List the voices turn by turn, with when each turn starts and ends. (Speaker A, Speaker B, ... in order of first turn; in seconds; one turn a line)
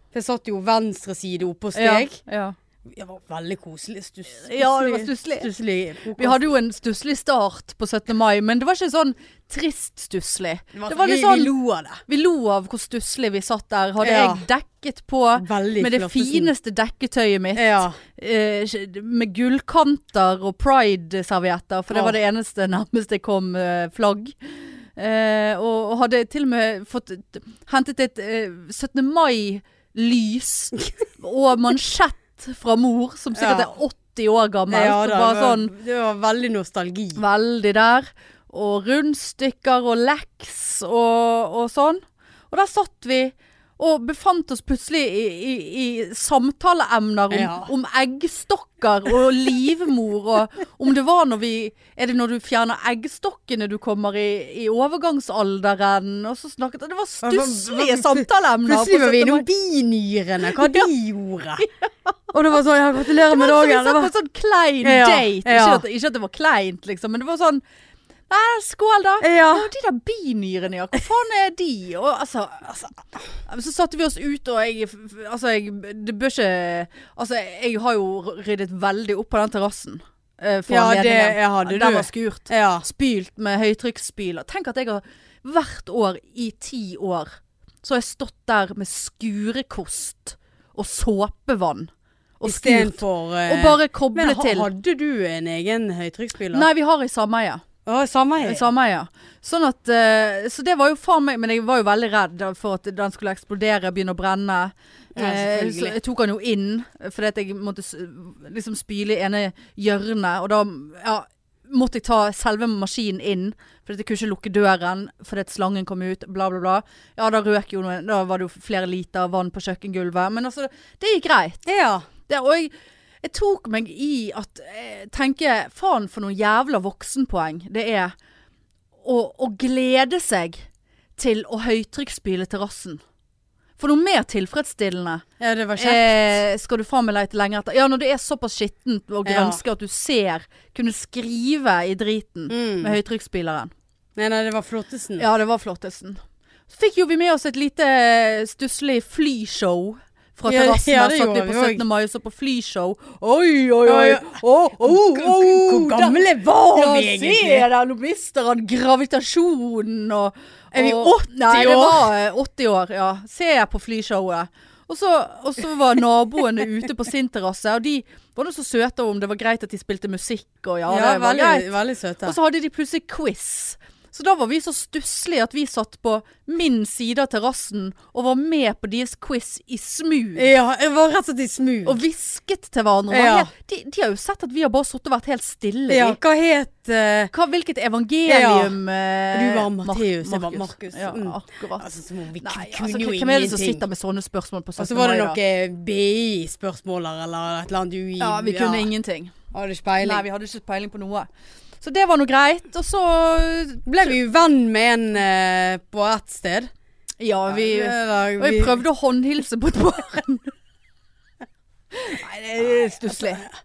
Speaker A: 0.1-2.2
Speaker B: 1.7-2.6
Speaker A: 2.9-6.4
Speaker B: 4.4-5.5
Speaker B: 6.2-11.5
Speaker A: 10.8-12.0
Speaker B: 12.1-35.7
Speaker A: 14.0-14.4
Speaker A: 15.4-16.5
Speaker A: 17.6-18.0
Speaker A: 33.4-33.7
Speaker A: 34.7-37.2
Speaker B: 37.1-59.5
Speaker A: 47.3-47.7
Speaker A: 57.2-61.7
Speaker B: 60.5-60.9
Speaker B: 61.6-62.1
Speaker A: 62.3-64.1
Speaker B: 63.1-67.6
Speaker A: 64.8-65.8
Speaker B: 68.3-72.8
Speaker A: 69.2-69.7
Speaker B: 73.5-87.3
Speaker A: 80.7-82.9
Speaker B: 87.8-94.7
Speaker A: 92.5-96.7
Speaker B: 96.5-97.7
Speaker A: 97.9-98.7
Speaker B: 98.4-121.7
Speaker A: 105.2-106.0
Speaker A: 121.7-122.1
Speaker B: 122.3-122.7
Speaker B: 123.2-128.1
Speaker B: 129.0-130.7
Speaker B: 131.2-133.0
Speaker B: 133.8-135.2
Speaker A: 135.4-136.4
Speaker B: 135.8-143.7
Speaker A: 139.3-139.6
Speaker A: 142.5-143.0
Speaker A: 144.2-145.3
Speaker B: 145.2-180.5
Speaker A: 150.5-151.8
Speaker A: 153.9-157.7
Speaker A: 160.7-162.1
Speaker A: 170.9-172.4
Speaker A: 180.4-182.0
Speaker B: 181.8-186.2
Speaker A: 183.1-183.5
Speaker A: 185.9-187.3
Speaker B: 187.3-191.9
Speaker A: 188.3-188.8
Speaker A: 189.3-193.8
Speaker B: 192.4-195.4
Speaker A: 194.8-198.9
Speaker B: 198.2-199.3
Speaker A: 199.5-200.2
Speaker B: 200.0-201.3
Speaker B: 201.8-204.1
Speaker A: 203.9-206.7
Speaker B: 207.2-210.5
Speaker A: 207.5-208.8
Speaker B: 211.9-213.5
Speaker A: 213.1-213.5